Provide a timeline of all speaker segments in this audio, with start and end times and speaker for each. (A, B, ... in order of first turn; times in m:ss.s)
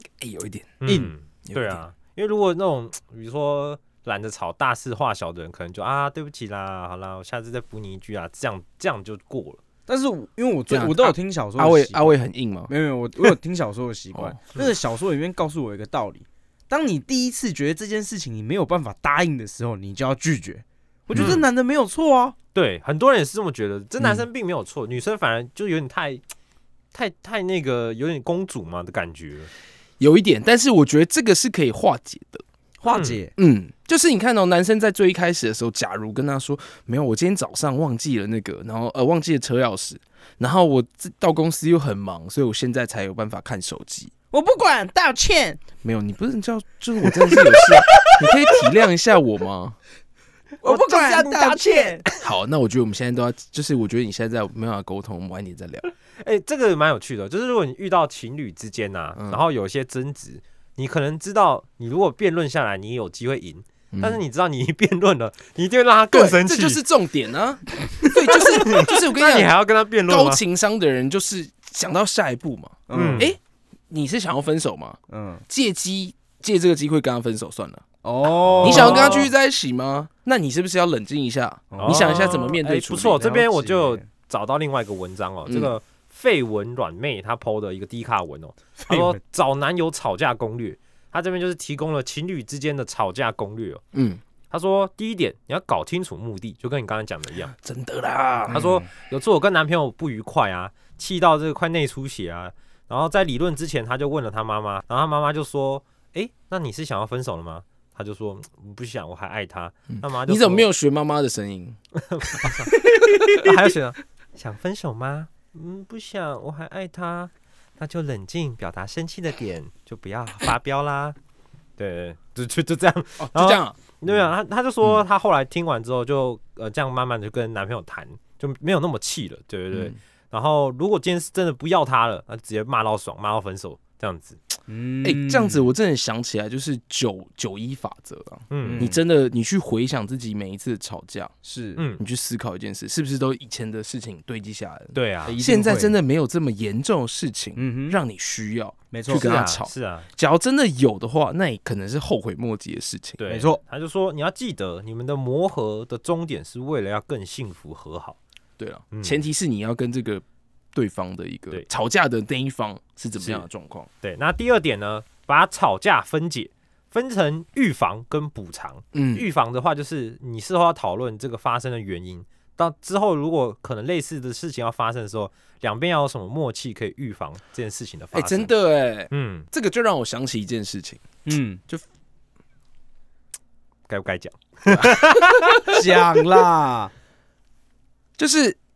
0:00.2-0:01.8 A
0:00.8-0:09.6 B
0:00.9-0:01.1 C
0:09.9-0:22.4 C
0:10.7-0:13.4 A
0:21.1-0:21.4 A
0:21.1-0:21.4 B
0:22.5-0:26.2 B
0:24.0-0:24.3 A
0:26.9-0:29.5 B
0:30.0-0:32.4 A
0:32.8-0:33.3 C
0:32.9-0:33.2 B
0:33.4-0:44.1 A
0:44.3-0:45.6 C
0:45.8-0:49.8 A
0:50.6-0:52.0 C
0:50.6-0:52.2 B
0:52.2-0:55.9 A
0:56.2-1:06.8 B
0:59.2-0:59.4 A
1:03.9-1:04.2 A
1:06.1-1:09.5 A
1:08.3-1:10.4 B
1:10.1-1:13.4 A
1:12.9-1:13.3 C
1:12.9-1:13.3 B
1:13.9-1:17.8 A
1:15.1-1:15.4 C
1:18.0-1:19.3 C
1:18.3-1:19.3 B
1:18.6-1:23.3 A
1:21.7-1:22.5 C
1:21.8-1:33.8 B
1:23.2-1:24.0 C
1:25.5-1:25.7 A
1:28.9-1:29.2 C
1:33.9-1:34.2 A
1:34.5-1:37.5 B
1:37.5-1:38.8 A
1:38.5-1:50.7 B
1:38.5-1:38.8 C
1:49.9-1:51.8 A
1:52.0-2:01.2 B
1:52.3-1:53.5 A
2:01.8-2:14.4 B
2:03.2-2:04.3 A
2:14.7-2:15.6 C
2:15.0-2:21.3 A
2:18.5-2:18.9 B
2:18.6-2:19.0 C
2:21.4-2:21.8 C
2:21.8-2:22.0 B
2:22.0-2:33.2 A
2:24.9-2:25.4 B
2:25.3-2:26.0 C
2:27.6-2:28.0 C
2:28.9-2:29.2 C
2:29.1-2:30.1 B
2:33.2-2:38.2 B
2:33.3-2:33.6 C
2:38.6-2:43.9 A
2:38.9-2:39.2 B
2:44.0-2:58.5 B
2:48.9-2:49.3 A
2:58.1-3:01.0 A
2:59.1-2:59.5 B
3:01.2-3:01.6 C
3:03.9-3:05.8 B
3:04.7-3:05.7 A
3:05.7-3:06.9 C
3:08.2-3:08.6 A